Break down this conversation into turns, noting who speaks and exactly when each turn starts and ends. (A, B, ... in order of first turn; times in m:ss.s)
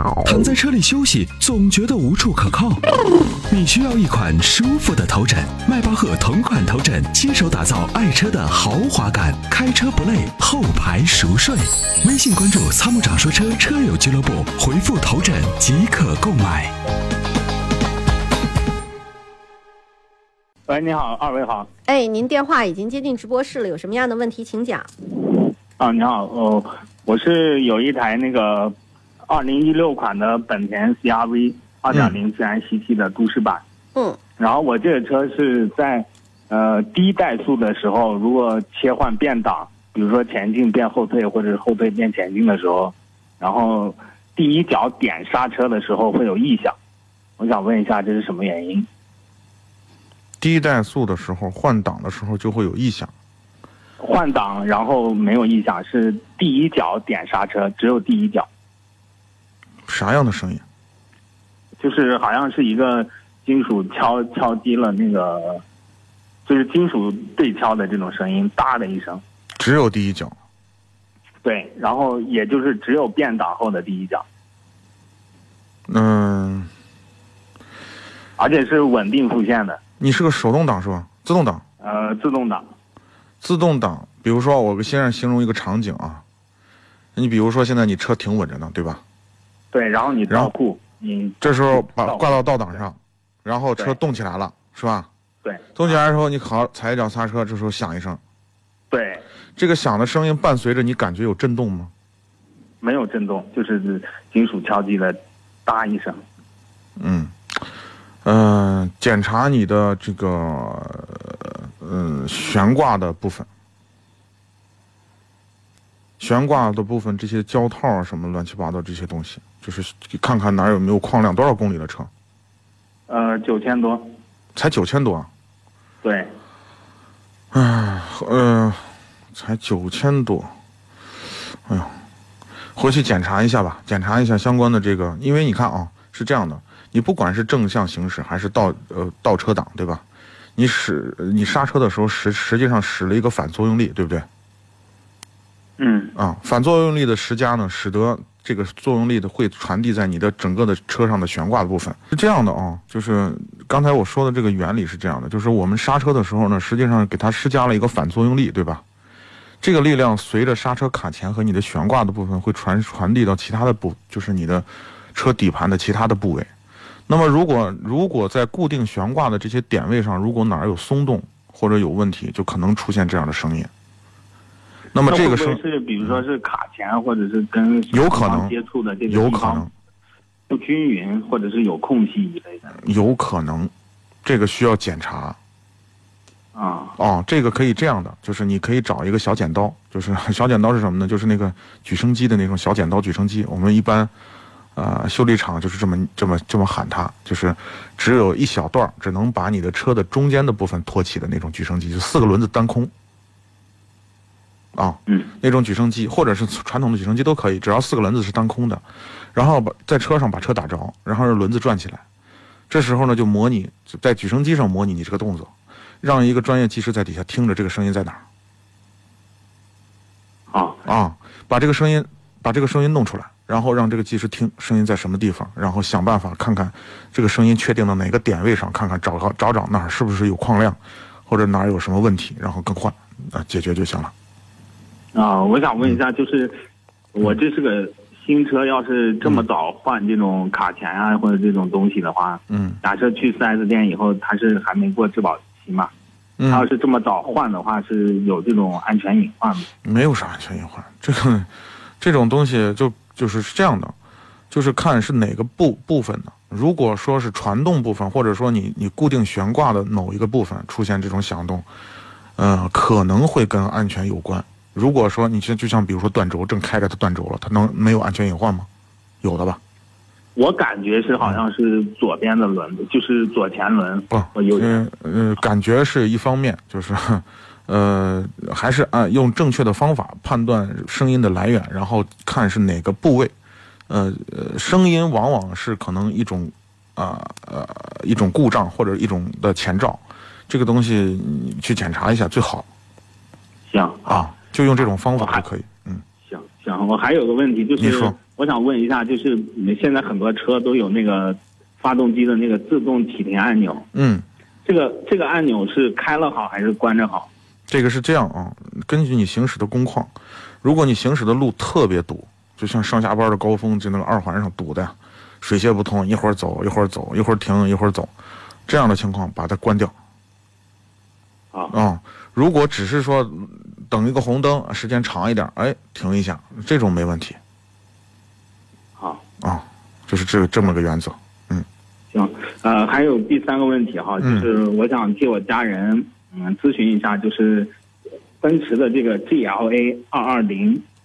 0:00.2-0:02.8 A
0:03.5-0:16.7 A
0:20.7-0:21.7 B
0:21.9-0:24.9 C
0:25.8-0:28.7 B
0:29.3-0:33.6 B
0:34.4-0:46.8 B
0:47.4-0:48.9 B
0:50.4-0:53.1 D
0:54.0-0:58.5 B
0:59.9-1:00.6 D
1:01.8-1:05.6 B
1:06.5-1:09.2 B
1:09.6-1:10.3 D
1:11.4-1:14.2 B
1:15.9-1:16.7 D
1:18.4-1:19.8 B
1:20.0-1:21.6 D
1:21.8-1:22.6 B
1:23.4-1:26.2 D
1:27.2-1:29.0 D
1:29.7-1:32.4 B
1:30.3-1:30.5 D
1:31.4-1:35.1 D
1:35.4-1:36.0 B
1:35.8-1:38.2 D
1:38.9-1:39.2 B
1:39.6-1:41.9 D
1:42.8-1:46.2 B
1:47.0-1:47.3 D
1:48.2-1:53.5 D
1:56.2-2:02.1 D
2:03.1-2:04.1 B
2:04.6-2:05.3 D
2:06.0-2:06.3 B
2:07.5-2:10.5 D
2:11.7-2:11.9 D
2:12.8-2:20.0 D
2:20.6-2:24.3 D
2:25.8-2:26.1 B
2:26.2-2:38.8 D
2:39.6-2:46.5 D
2:47.1-2:53.7 D
2:54.9-2:56.2 D
2:55.1-2:59.7 B
2:57.9-2:58.6 D
2:59.1-2:59.7 D
3:00.5-3:02.8 B
3:02.7-3:03.7 D
3:04.2-3:05.4 D
3:06.6-3:07.0 B
3:07.0-3:14.1 D
3:14.8-3:22.9 D
3:24.8-3:28.8 D
3:29.3-3:32.0 D
3:32.7-3:38.2 D
3:40.5-3:40.8 B
3:40.8-3:54.1 D
3:55.1-3:56.6 B
3:57.1-4:05.9 B
4:02.5-4:02.8 D
4:06.4-4:06.7 D
4:06.5-4:09.7 B
4:09.8-4:11.5 D
4:12.0-4:14.0 D
4:14.5-4:21.7 D
4:22.4-4:28.7 D
4:29.2-4:29.6 D
4:30.4-4:34.8 B
4:34.1-4:43.3 D
4:43.9-4:52.7 D
4:53.7-4:54.3 B
4:54.1-4:56.0 D
4:55.2-4:55.4 B
4:56.2-5:03.9 B
4:57.8-4:58.2 D
5:03.9-5:04.2 D
5:04.6-5:07.3 B
5:07.7-5:18.1 D
5:18.7-5:19.9 D
5:21.7-5:27.4 D
5:29.4-5:31.7 D
5:32.1-5:37.7 B
5:34.2-5:34.5 D
5:38.4-5:40.8 B